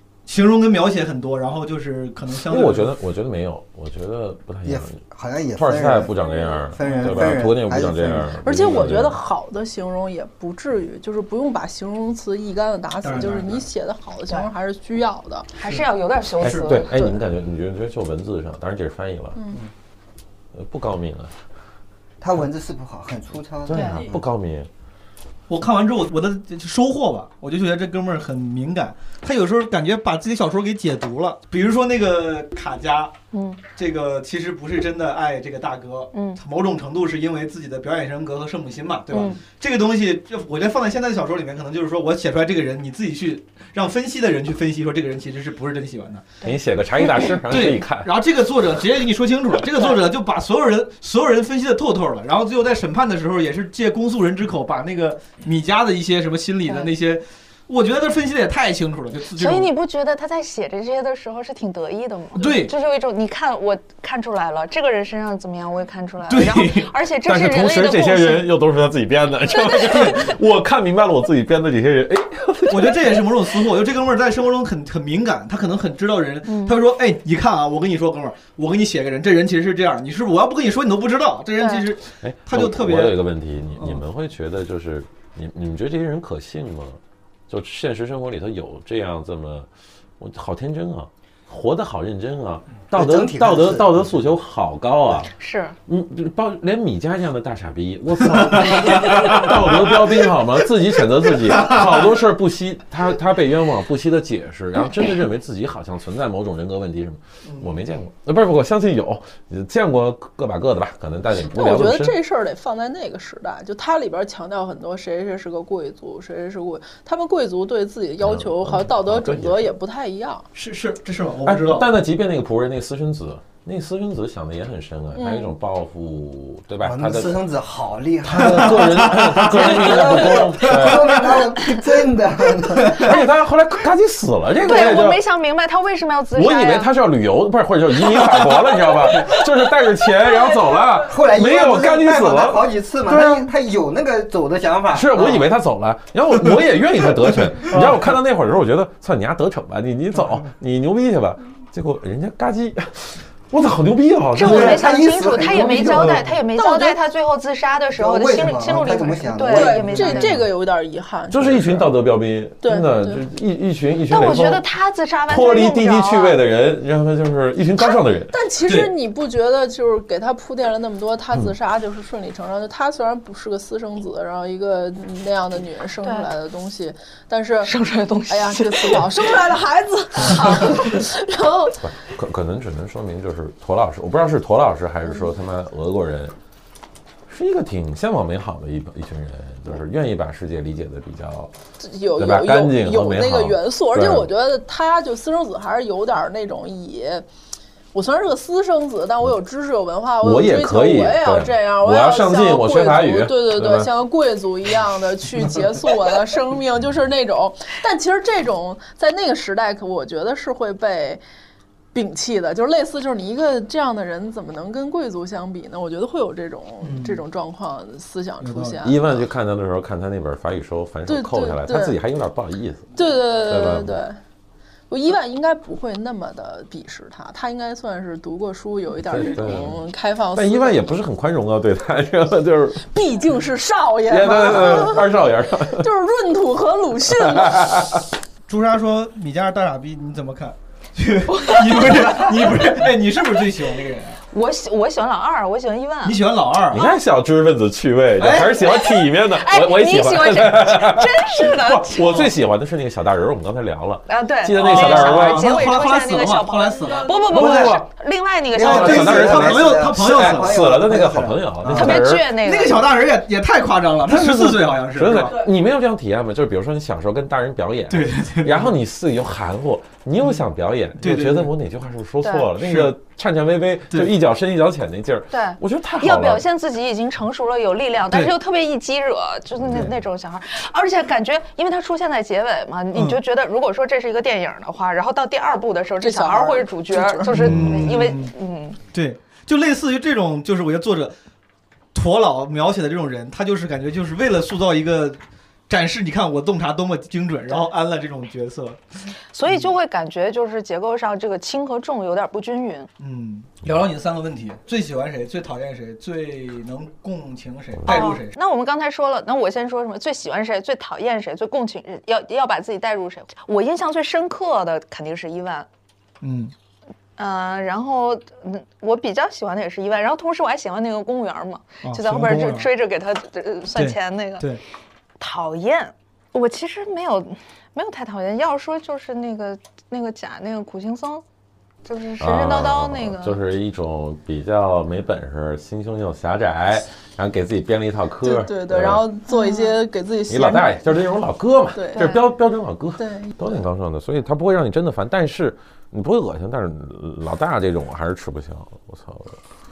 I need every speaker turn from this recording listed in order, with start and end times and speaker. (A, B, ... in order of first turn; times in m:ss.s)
0:00.3-0:02.9 A
0:02.5-0:05.0 B
0:04.6-0:06.2 C
0:05.6-0:09.2 B
0:06.7-0:08.3 C
0:06.9-0:07.2 A
0:08.4-0:15.5 D
0:13.0-0:13.6 A
0:15.5-0:17.2 E
0:16.4-0:19.4 B
0:20.5-0:21.3 B
0:22.2-0:24.2 C
0:23.7-0:24.7 B
0:23.7-0:24.0 E
0:25.5-0:33.1 A
0:33.3-0:33.6 E
0:33.8-0:46.3 A
0:36.1-0:36.4 E
0:39.1-0:39.4 E
0:46.4-0:47.3 E
0:46.4-0:48.1 B
0:47.5-0:59.7 A
0:56.7-0:56.9 E
0:59.4-1:08.5 E
1:02.4-1:02.7 A
1:06.3-1:06.9 A
1:07.2-1:13.4 B
1:09.4-1:10.4 E
1:12.7-1:23.2 A
1:16.5-1:16.8 E
1:21.6-1:21.8 E
1:22.2-1:35.3 B
1:23.8-1:24.0 A
1:32.9-1:34.0 C
1:35.4-1:35.8 E
1:35.9-1:52.2 B
1:51.5-2:00.5 D
1:58.2-1:59.7 B
2:00.6-2:01.9 A
2:01.4-2:07.4 B
2:05.2-2:05.5 D
2:06.8-2:13.1 C
2:08.3-2:09.4 A
2:08.3-2:11.4 B
2:12.9-2:15.2 B
2:14.6-2:16.9 E
2:16.4-2:23.5 B
2:18.0-2:19.4 E
2:20.2-2:20.6 E
2:21.0-2:25.4 C
2:24.9-2:35.0 B
2:27.7-2:28.0 A
2:34.4-2:40.4 E
2:34.4-2:36.4 C
2:36.5-2:37.0 D
2:37.9-2:40.4 C
2:39.5-2:41.9 D
2:41.3-2:44.6 B
2:42.6-2:43.2 D
2:44.1-2:46.4 E
2:45.3-2:48.3 B
2:48.3-2:57.7 D
2:48.6-2:48.9 A
2:56.0-2:56.3 E
2:57.6-2:59.3 E
2:58.3-3:01.8 D
3:00.3-3:00.9 E
3:01.8-3:06.3 B
3:07.3-3:11.5 B
3:11.8-3:17.2 D
3:12.2-3:14.3 B
3:17.9-3:31.2 D
3:20.2-3:23.9 B
3:31.9-3:39.2 D
3:36.8-3:37.2 A
3:38.4-3:38.8 A
3:38.8-3:44.0 B
3:41.1-3:42.0 D
3:42.9-3:44.2 D
3:44.9-3:50.9 D
3:49.1-3:49.8 B
3:50.3-3:52.8 B
3:52.9-3:55.1 D
3:54.1-3:55.9 B
3:55.8-3:57.7 D
3:57.1-3:58.0 B
3:58.5-4:04.2 A
4:01.4-4:02.1 E
4:04.3-4:06.2 E
4:06.0-4:06.8 A
4:06.7-4:15.6 B
4:08.2-4:08.6 A
4:08.6-4:12.0 E
4:14.1-4:19.4 E
4:14.6-4:17.7 A
4:17.3-4:17.9 B
4:17.4-4:17.6 C
4:18.5-4:22.0 C
4:18.6-4:20.6 A
4:18.6-4:22.3 B
4:21.7-4:22.9 E
4:22.4-4:25.4 A
4:24.1-4:36.4 B
4:27.9-4:28.7 A
4:31.0-4:31.5 A
4:32.2-4:32.5 E
4:32.6-4:32.9 A
4:35.3-4:48.8 E
4:39.6-4:39.9 B
4:46.0-4:47.4 D
4:47.3-4:48.3 A
4:47.4-4:47.8 B
4:48.9-4:51.2 A
4:51.9-4:58.8 A
4:59.3-5:02.9 E
5:03.0-5:08.4 A
5:07.8-5:08.1 B
5:07.9-5:15.7 E
5:16.2-5:16.5 A
5:17.2-5:24.5 E
5:21.8-5:22.7 A
5:23.8-5:24.6 A
5:25.2-5:31.2 E
5:31.8-5:33.4 E
5:32.2-5:39.0 B
5:38.2-5:40.8 D
5:39.3-5:39.8 E
5:40.3-5:49.4 B
5:41.7-5:42.1 D
5:42.0-5:42.2 E
5:43.0-5:43.6 D